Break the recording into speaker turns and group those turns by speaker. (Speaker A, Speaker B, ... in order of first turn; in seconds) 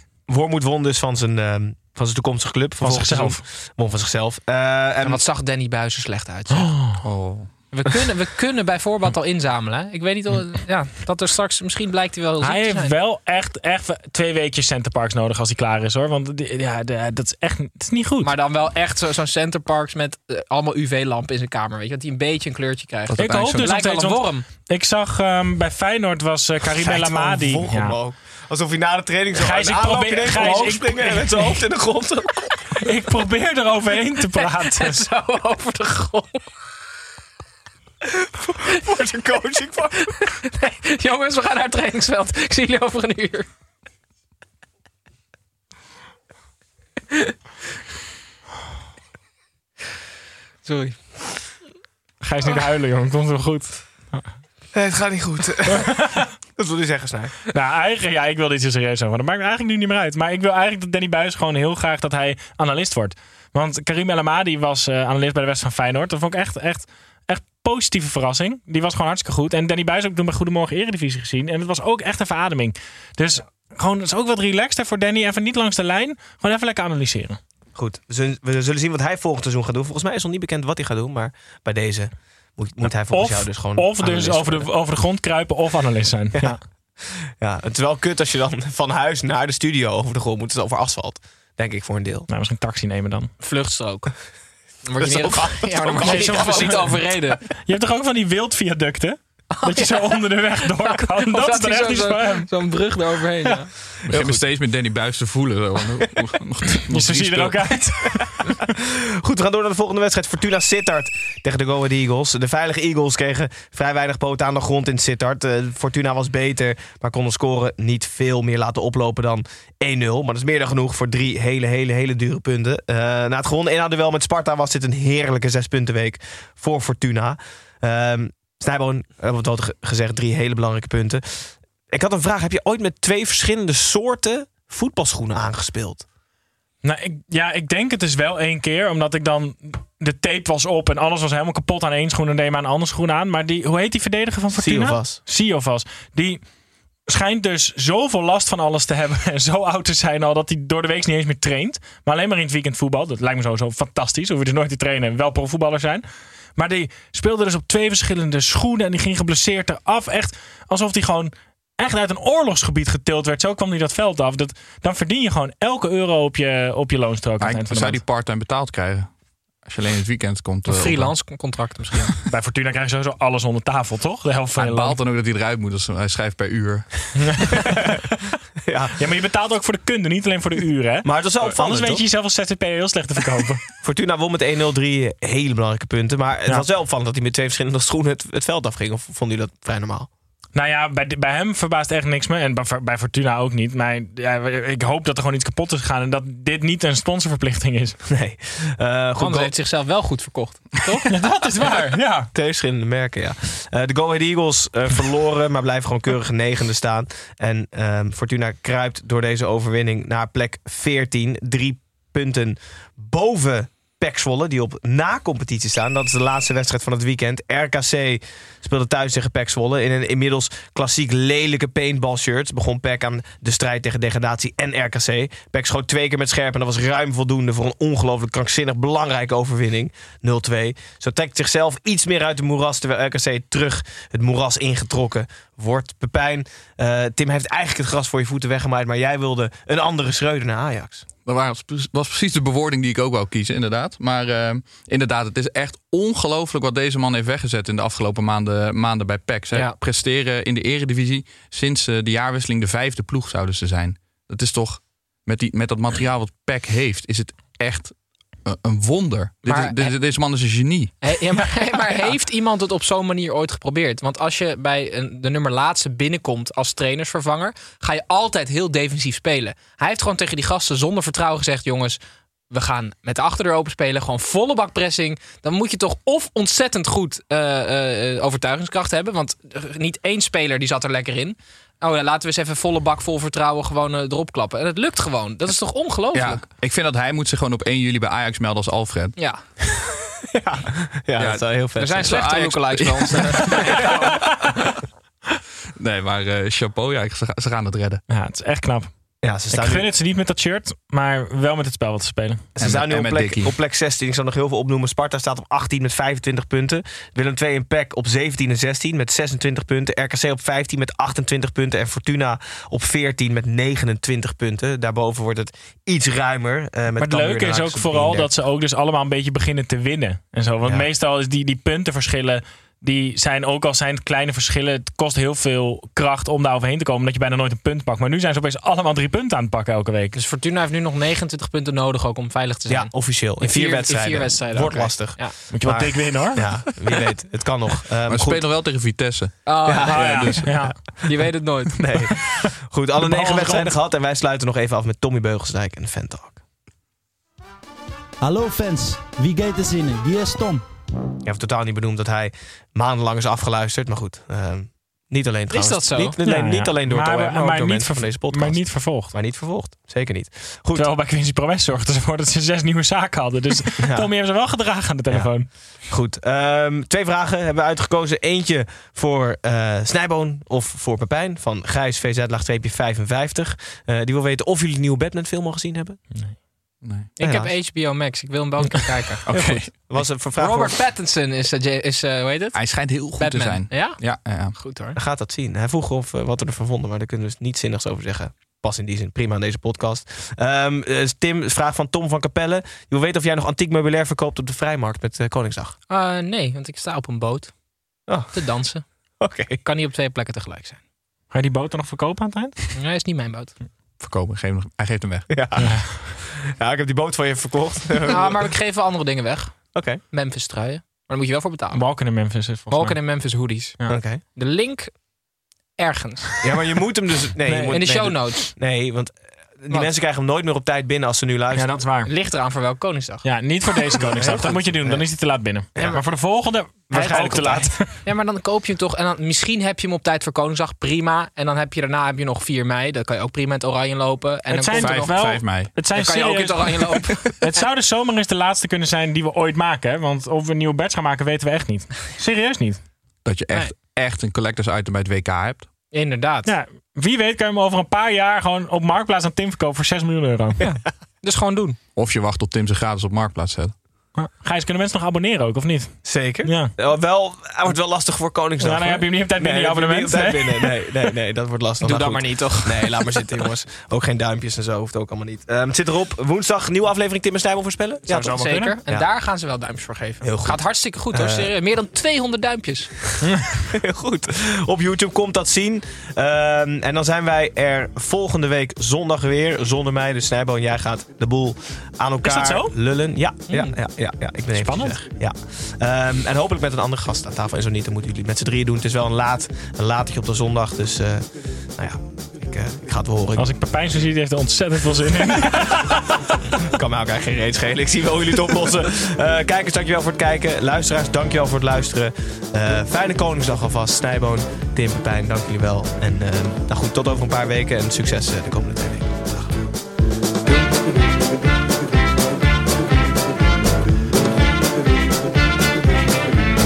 Speaker A: 0.3-5.2, 26.7-32.7, 38.4-40.1, 54.7-57.3, 77.7-84.7, 86.4-92.3, 95.0-97.0, 109.2-136.0, 144.5-145.2, 178.7-178.9, 181.0-182.0, 183.8-190.1, 198.1-199.5, 202.3-241.0, 290.4-292.1, 299.2-299.9, 302.6-318.3, 332.7-338.4, 339.6-341.3, 341.8-346.4, 351.2-360.9, 363.8-364.1, 365.1-376.0, 377.2-377.6, 379.4-380.8, 384.9-395.8, 398.1-399.6, 405.3-408.4, 409.7-410.0, 413.9-414.2, 416.4-421.8, 424.0-425.1, 426.9-427.7, 456.0-468.3, 470.2-471.5, 473.7-493.5, 496.7-509.5
Speaker B: 2.8-3.4, 6.5-7.0, 12.4-18.3, 23.2-28.0, 29.4-31.6, 32.8-35.0, 52.2-54.3, 56.0-56.2, 57.5-77.4, 82.8-86.6, 92.3-93.3, 96.0-97.1, 97.6-102.5, 106.9-108.6, 136.8-146.4, 147.1-156.1, 156.6-168.0, 172.2-175.0, 177.2-177.6, 179.0-183.6, 190.5-198.0, 201.1-202.3, 298.1-298.9, 299.5-302.4, 317.0-330.1, 335.5-336.4, 339.9-340.8, 343.0-343.7, 356.2-359.1, 360.7-365.5, 401.3-402.7, 405.6-405.9, 411.7-413.0, 417.5-417.8, 421.5-422.1, 423.2-427.9, 434.5-442.8, 446.4-450.6, 454.1-456.7, 458.6-460.9, 468.1-468.8, 482.2-482.7, 484.5-485.1, 493.4-496.0
Speaker C: 5.0-6.8, 7.7-12.9, 18.2-24.4, 34.3-36.4, 40.2-43.5, 50.6-51.2, 93.4-94.2, 94.8-97.4, 99.5-103.7, 170.7-172.1, 199.2-201.1, 259.4-259.9, 261.0-272.0, 272.5-286.4, 289.2-289.4, 291.8-293.9, 330.1-335.3, 339.4-341.8, 355.5-356.2, 377.2-385.0, 395.9-400.8, 402.7-403.6, 408.1-412.1, 412.7-413.8, 414.3-415.1, 415.8-416.4, 417.7-418.5, 422.0-423.2, 425.8-426.0, 426.9-437.6, 445.9-446.5, 450.6-451.8, 461.8-463.1, 468.1-472.9, 483.5-483.8
Speaker D: 7.0-7.5, 23.1-23.7, 104.1-107.9, 167.4-171.2, 174.6-177.6, 241.2-260.9, 286.1-289.2, 291.2-293.9, 295.8-298.0, 302.6-303.5, 338.1-340.3, 376.8-377.1, 379.2-379.7, 382.5-384.6, 404.0-405.6, 434.7-435.7, 443.2-445.7, 451.9-453.7
Speaker E: 348.2-350.6